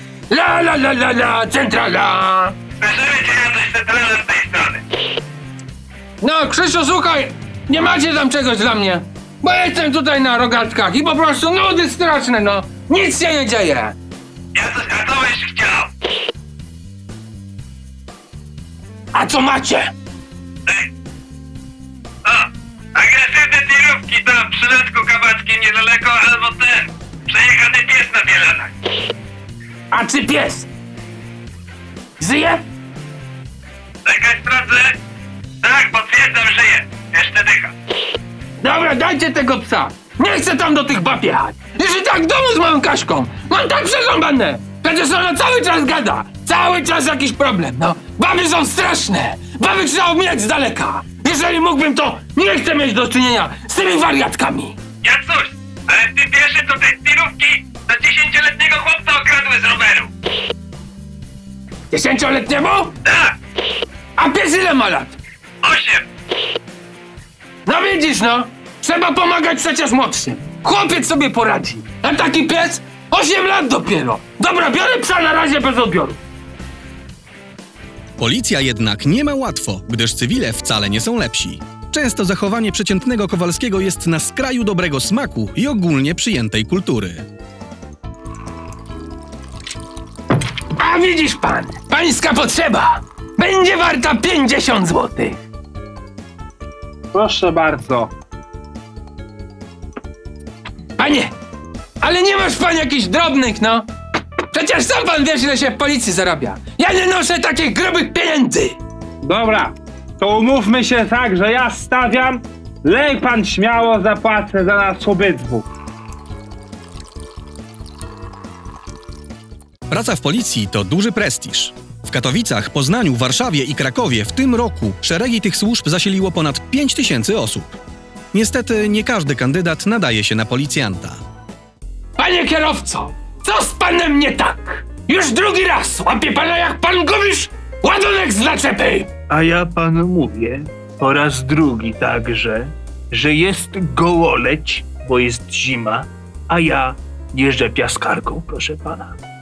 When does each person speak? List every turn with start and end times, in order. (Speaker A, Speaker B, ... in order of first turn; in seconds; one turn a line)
Speaker A: 0.3-2.5
Speaker B: 2.8-4.8
Speaker A: 6.2-13.9
Speaker B: 14.5-15.9
Speaker A: 19.1-19.9
Speaker B: 22.2-28.7
Speaker A: 29.9-30.7
Speaker A: 32.2-32.6
Speaker B: 34.0-35.0
Speaker B: 35.6-37.7
Speaker A: 38.6-54.8
Speaker B: 55.0-60.1
Speaker A: 61.9-63.0
Speaker B: 63.0-63.3
Speaker A: 64.2-65.2
Speaker B: 65.6-66.0
Speaker A: 67.7-76.2
Speaker C: 78.2-87.2
Speaker A: 90.7-95.4
Speaker D: 97.1-98.1
Speaker A: 101.0-101.3
Speaker A: 102.0-103.9
Speaker A: 104.5-108.8
Speaker D: 109.2-115.7
Speaker C: 119.9-127.8
Speaker C: 128.3-131.2
Speaker A: 132.2-139.1
Speaker E: 139.3-149.2